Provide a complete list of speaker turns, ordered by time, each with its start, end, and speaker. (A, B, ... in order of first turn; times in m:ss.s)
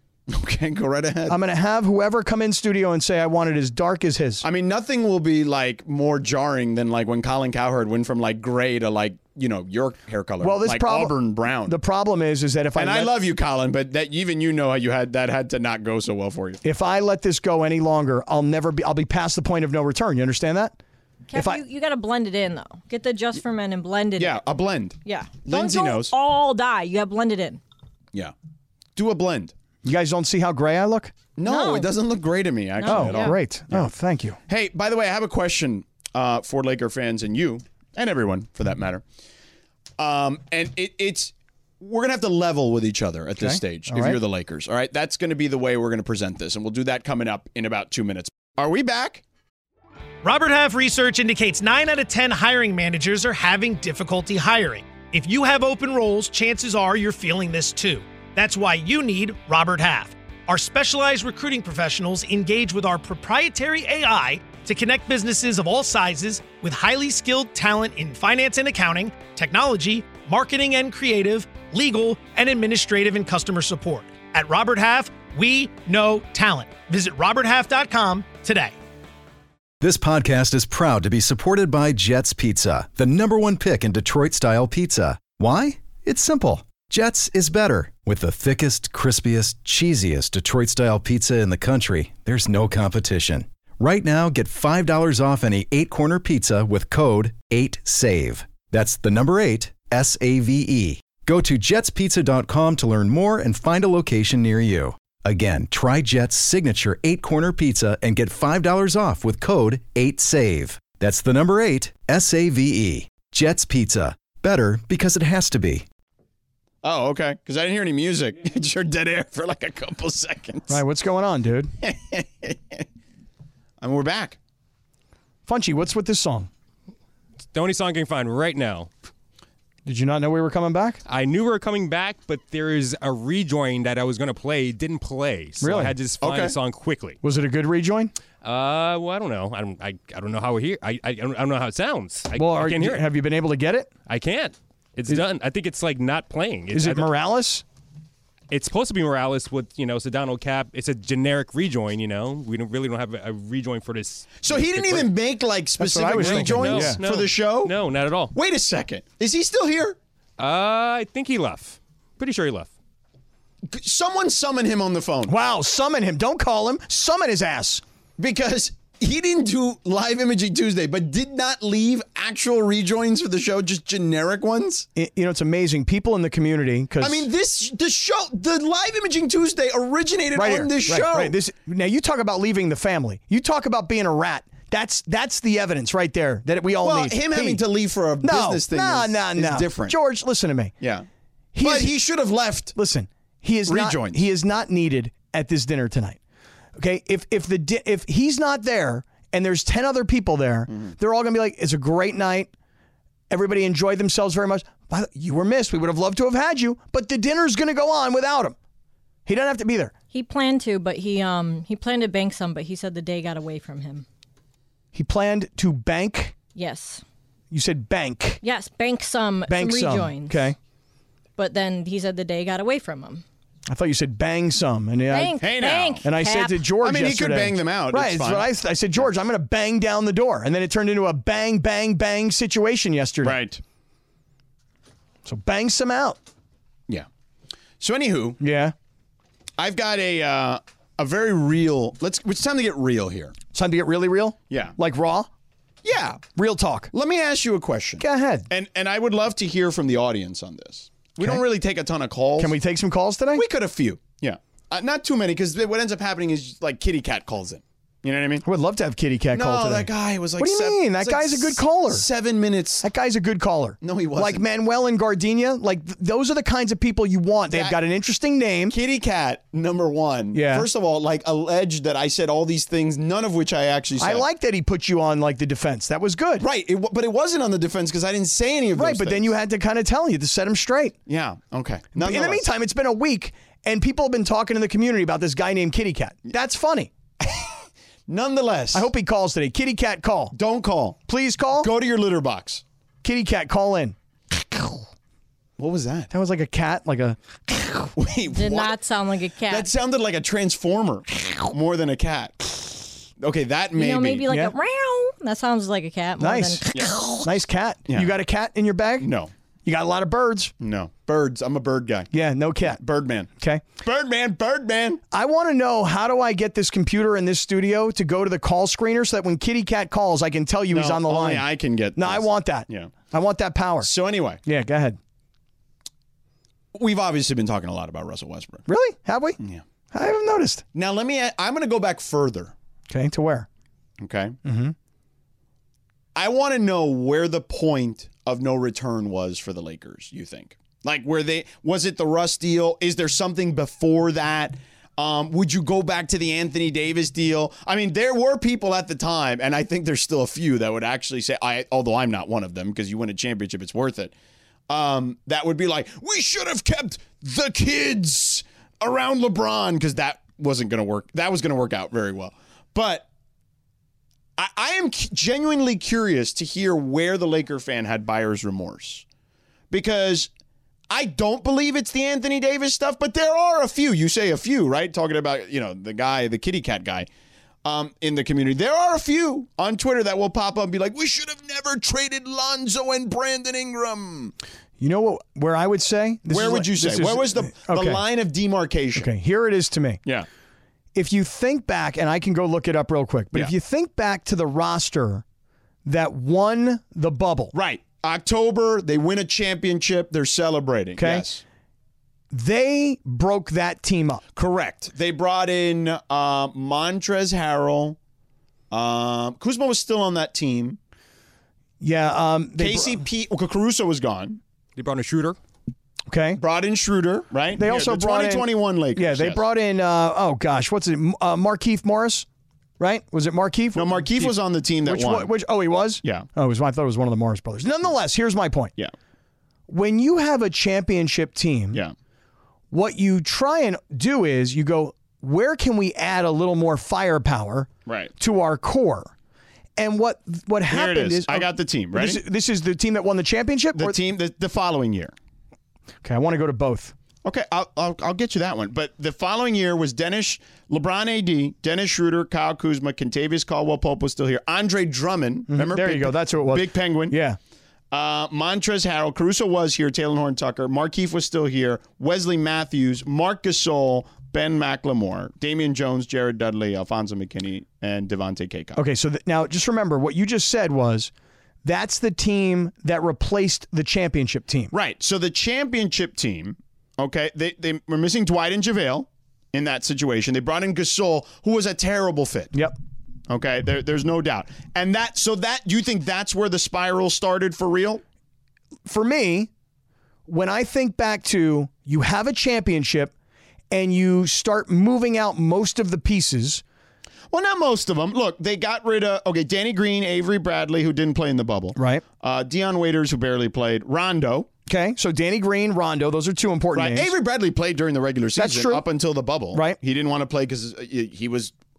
0:00.3-0:01.4 A
0:01.3-0:04.4 B
0:04.4-0:11.8 A
0:10.4-0:13.3 B
0:12.8-0:16.6 A
0:16.6-0:20.8 B
0:21.3-0:24.4 C
0:21.3-0:21.6 B
0:24.2-0:26.1 A
0:25.0-0:27.6 C
0:29.0-0:29.5 A
0:29.8-0:31.2 B
0:31.4-0:33.9 A
0:31.4-0:32.0 C
0:32.8-0:33.4 C
0:32.8-0:34.4 B
0:34.5-0:39.0 A
0:40.0-0:49.2 A
0:43.4-0:44.2 B
0:50.2-1:18.8 D
1:19.8-1:55.8 E
1:56.8-2:00.8 A
2:00.7-2:01.7 B
2:01.8-2:02.8 A
2:03.8-2:04.4 A
2:05.5-2:06.5 B
2:07.5-2:08.9 F
2:09.8-2:11.0 B
2:11.1-2:17.2 F
2:15.6-2:16.0 B
2:16.2-2:16.6 A
2:17.2-2:18.1 B
2:18.4-2:23.0 F
2:22.4-2:23.9 B
2:24.1-2:27.1 F
2:26.7-2:27.6 B
2:28.5-2:35.1 F
2:34.4-2:37.8 A
2:35.8-2:37.0 B
2:36.2-2:38.4 F
2:38.3-2:40.0 A
2:40.4-2:42.7 F
2:43.7-2:45.3 A
2:45.3-2:47.8 B
2:48.2-2:54.9 A
2:55.0-2:57.3 B
2:57.0-3:01.4 A
3:00.3-3:07.6 B
3:06.8-3:10.0 A
3:08.2-3:10.7 B
3:10.8-3:11.1 A
3:11.5-3:11.9 B
3:11.6-3:12.8 A
3:12.8-3:16.2 B
3:13.7-3:14.2 A
3:16.8-3:22.5 B
3:23.3-3:28.6 B
3:29.3-3:29.9 B
3:30.1-3:34.1 C
3:34.9-3:36.4 B
3:36.6-3:37.0 C
3:37.5-3:38.4 B
3:38.4-3:40.5 C
3:39.5-3:40.6 B
3:41.4-3:43.2 C
3:43.7-3:53.4 B
3:45.1-3:46.7 C
3:45.4-3:46.0 A
3:46.8-3:48.5 A
3:53.2-3:53.6 A
3:55.2-3:56.2 B
3:57.8-3:58.4 A
3:58.4-3:58.8 B
3:59.6-4:03.4 A
4:03.5-4:05.3 B
4:05.8-4:06.3 A
4:06.4-4:06.9 B
4:06.9-4:12.5 A
4:08.0-4:08.5 B
4:12.4-4:13.4 B
4:13.3-4:18.4 A
4:18.4-4:22.1 B
4:19.3-4:22.8 A
4:22.8-4:28.8 B
4:23.8-4:24.4 A
4:27.5-4:27.8 A
4:28.7-4:34.2 A
4:30.3-4:30.7 B
4:34.0-4:36.5 B
4:36.4-4:39.3 A
4:38.8-4:41.0 B
4:41.1-4:42.4 A
4:42.0-4:46.9 B
4:47.2-4:48.9 A
4:48.7-4:50.4 B
4:50.3-4:51.0 A
4:51.1-4:51.7 B
4:51.6-4:52.6 A
4:53.0-4:54.8 B
4:55.6-4:56.1 A
4:56.1-4:57.9 B
4:58.0-4:58.8 A
4:58.3-4:59.7 C
4:59.5-5:02.4 A
5:03.2-5:04.3 A
5:03.8-5:07.1 C
5:04.3-5:04.6 B
5:06.2-5:09.1 B
5:06.7-5:07.3 A
5:07.9-5:08.2 A
5:09.0-5:09.3 A
5:09.6-5:10.5 B
5:10.6-5:12.1 A
5:12.1-5:12.8 B
5:12.7-5:13.3 A
5:13.4-5:13.6 B
5:13.8-5:15.0 A
5:15.1-5:23.9 B
5:20.7-5:22.9 A
5:23.8-5:24.4 A
5:24.4-5:25.0 B
5:26.8-5:28.6 A
5:28.7-5:29.4 B
5:29.9-5:30.6 B
5:30.8-5:32.5 A
5:32.9-5:33.5 B
5:34.0-5:34.4 A
5:34.4-5:34.8 B
5:36.2-5:54.1 A
5:54.7-6:03.1 A
6:04.4-6:09.0 A
6:09.7-6:10.3 A
6:10.9-6:17.1 A
6:17.6-6:24.3 A
6:24.8-6:28.0 B
6:26.3-6:29.1 A
6:28.9-6:30.0 B
6:30.9-6:35.2 B
6:35.8-6:37.6 B
6:37.5-6:41.4 A
6:41.0-6:41.3 B
6:42.3-6:44.2 B
6:44.4-6:48.0 A
6:48.7-6:50.8 A
6:51.8-6:53.0 B
6:52.6-6:54.4 A
6:54.8-6:55.4 F
6:56.1-6:56.4 B
6:56.4-6:59.4 A
6:57.6-7:02.3 B
7:02.8-7:04.3 B
7:03.7-7:05.3 A
7:04.8-7:08.8 B
7:09.7-7:11.8 B
7:12.7-7:19.1 B
7:17.9-7:18.1 A
7:19.8-7:24.0 B
7:20.7-7:22.2 A
7:23.8-7:25.1 A
7:26.0-7:26.9 B
7:27.2-7:37.2 A
7:35.5-7:37.4 B
7:37.9-7:48.8 A
7:48.8-7:51.1 B
7:51.6-7:54.7 B
7:54.7-8:02.5 A
8:03.3-8:08.0 A
8:08.9-8:09.5 B
8:10.3-8:13.1 B
8:13.7-8:16.6 B
8:17.3-8:24.5 A
8:21.8-8:22.0 B
8:24.7-8:27.1 B
8:26.8-8:31.5 A
8:28.4-8:28.8 B
8:29.5-8:29.8 B